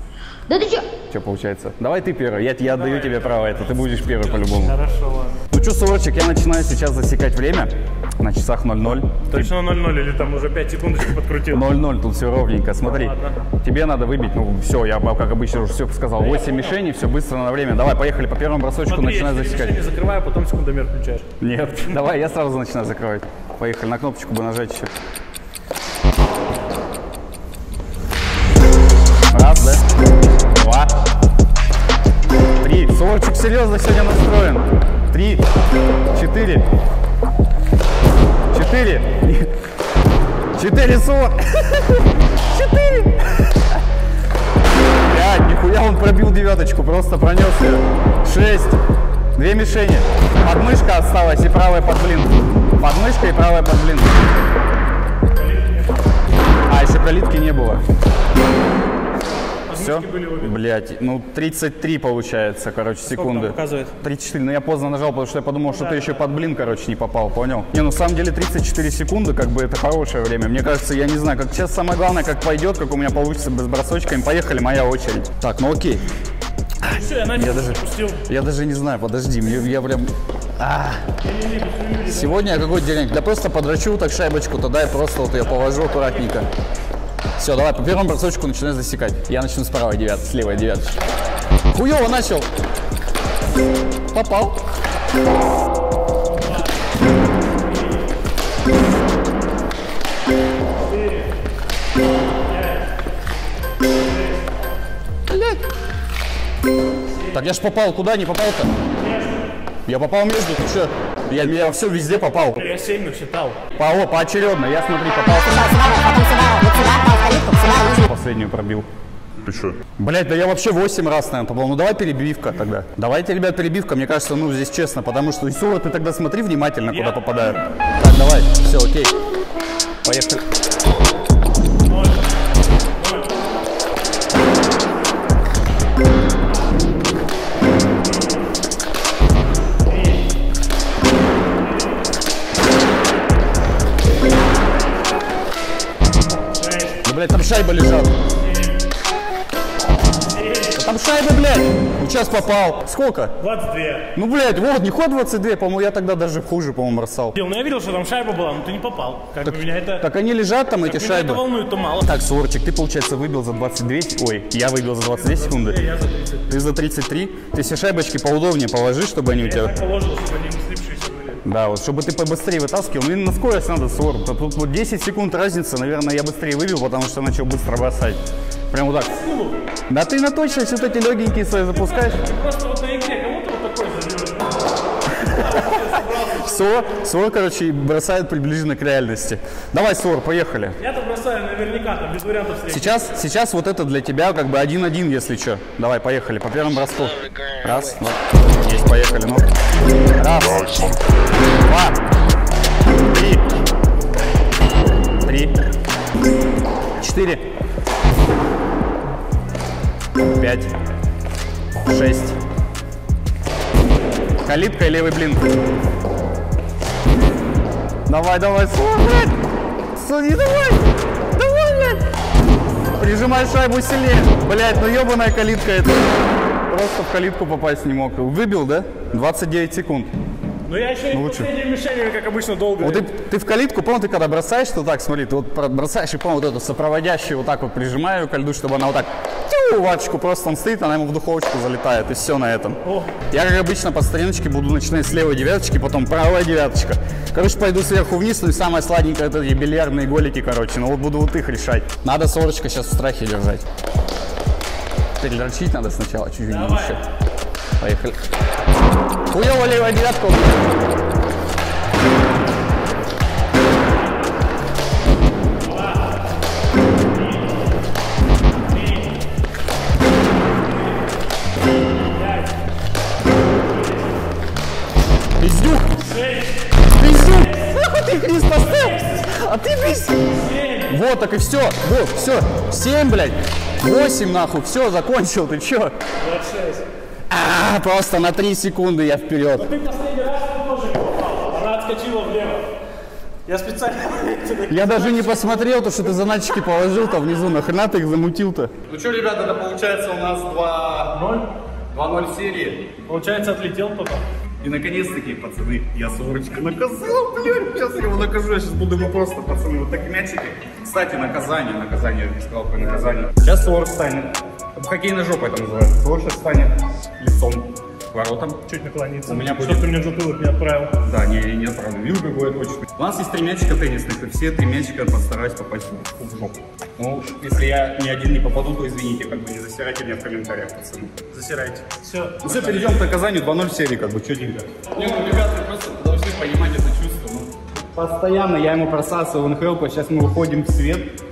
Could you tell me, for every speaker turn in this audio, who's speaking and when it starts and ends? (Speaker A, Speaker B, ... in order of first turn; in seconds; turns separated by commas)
Speaker A: 0.5-0.9, Speaker B: 1.0-4.8, Speaker C: 2.6-5.4, Speaker B: 5.5-9.5, Speaker C: 9.3-11.7, Speaker B: 11.5-19.8, Speaker C: 12.8-13.4, Speaker C: 16.2-16.8, Speaker C: 18.9-21.3, Speaker B: 21.4-24.9, Speaker B: 29.3-29.8, Speaker B: 30.5-30.9, Speaker B: 32.6-35.5, Speaker B: 36.1-36.6, Speaker B: 38.5-39.5, Speaker B: 40.5-43.5, Speaker B: 45.0-48.8, Speaker B: 49.3-54.2, Speaker C: 55.3-56.0, Speaker B: 56.7-57.8, Speaker C: 59.7-60.5, Speaker B: 59.7-76.0, Speaker C: 63.0-63.9, Speaker C: 65.7-66.2, Speaker B: 76.8-81.1, Speaker C: 76.8-78.2, Speaker C: 81.2-82.5, Speaker B: 82.0-86.5, Speaker C: 85.6-86.1, Speaker B: 87.4-91.0, Speaker B: 91.7-92.5, Speaker B: 94.1-94.6, Speaker C: 100.9-101.3, Speaker C: 102.5-102.9, Speaker C: 104.0-104.5, Speaker B: 105.3-105.6, Speaker B: 107.3-108.7, Speaker C: 109.0-109.5, Speaker B: 109.9-112.6, Speaker C: 112.5-113.6, Speaker B: 113.7-116.0, Speaker A: 115.5-118.0, Speaker B: 117.7-118.9, Speaker B: 119.5-129.1, Speaker C: 126.9-127.6, Speaker B: 130.0-130.4, Speaker C: 131.9-132.2, Speaker C: 132.9-133.4, Speaker C: 139.9-140.2, Speaker C: 146.5-147.0, Speaker B: 147.0-148.1, Speaker C: 148.4-148.8, Speaker C: 150.3-150.8, Speaker B: 150.7-153.3, Speaker C: 153.4-154.1, Speaker B: 154.1-157.4, Speaker C: 157.3-160.1, Speaker B: 159.4-161.4, Speaker C: 160.8-162.1, Speaker B: 162.0-165.8, Speaker C: 165.1-166.5, Speaker B: 166.4-169.8, Speaker C: 169.4-171.4, Speaker B: 171.4-178.2, Speaker B: 178.7-179.2, Speaker C: 179.2-179.6, Speaker B: 179.9-182.2, Speaker C: 181.6-186.9, Speaker B: 185.1-190.8, Speaker C: 190.8-193.0, Speaker B: 192.7-199.4, Speaker B: 200.1-201.0, Speaker B: 201.5-202.0, Speaker B: 203.1-203.4, Speaker B: 205.2-205.6, Speaker B: 207.0-207.4, Speaker B: 210.2-210.7, Speaker B: 211.8-212.4, Speaker B: 214.4-215.4, Speaker B: 218.1-219.4, Speaker B: 219.9-222.0, Speaker B: 222.9-226.1, Speaker B: 226.7-230.1, Speaker C: 230.6-233.1, Speaker B: 231.1-231.5, Speaker B: 232.8-253.6, Speaker C: 242.8-243.2, Speaker B: 255.2-257.0, Speaker C: 256.5-257.0, Speaker B: 257.8-258.2, Speaker B: 259.3-260.6, Speaker C: 265.6-266.0, Speaker C: 267.1-267.5, Speaker C: 268.7-269.1, Speaker C: 272.0-272.5, Speaker C: 273.6-274.1, Speaker B: 275.4-276.1, Speaker C: 276.1-276.7, Speaker B: 276.8-285.9, Speaker C: 278.5-279.2, Speaker C: 280.4-280.9, Speaker C: 286.2-286.9, Speaker B: 287.3-289.7, Speaker C: 289.6-292.7, Speaker C: 293.4-295.8, Speaker B: 294.7-301.2, Speaker C: 301.1-301.5, Speaker B: 301.9-302.9, Speaker C: 303.1-304.2, Speaker B: 304.6-318.6, Speaker C: 318.7-320.9, Speaker B: 319.2-319.9, Speaker B: 321.0-331.8, Speaker C: 331.4-333.0, Speaker B: 332.4-341.1, Speaker C: 334.9-335.2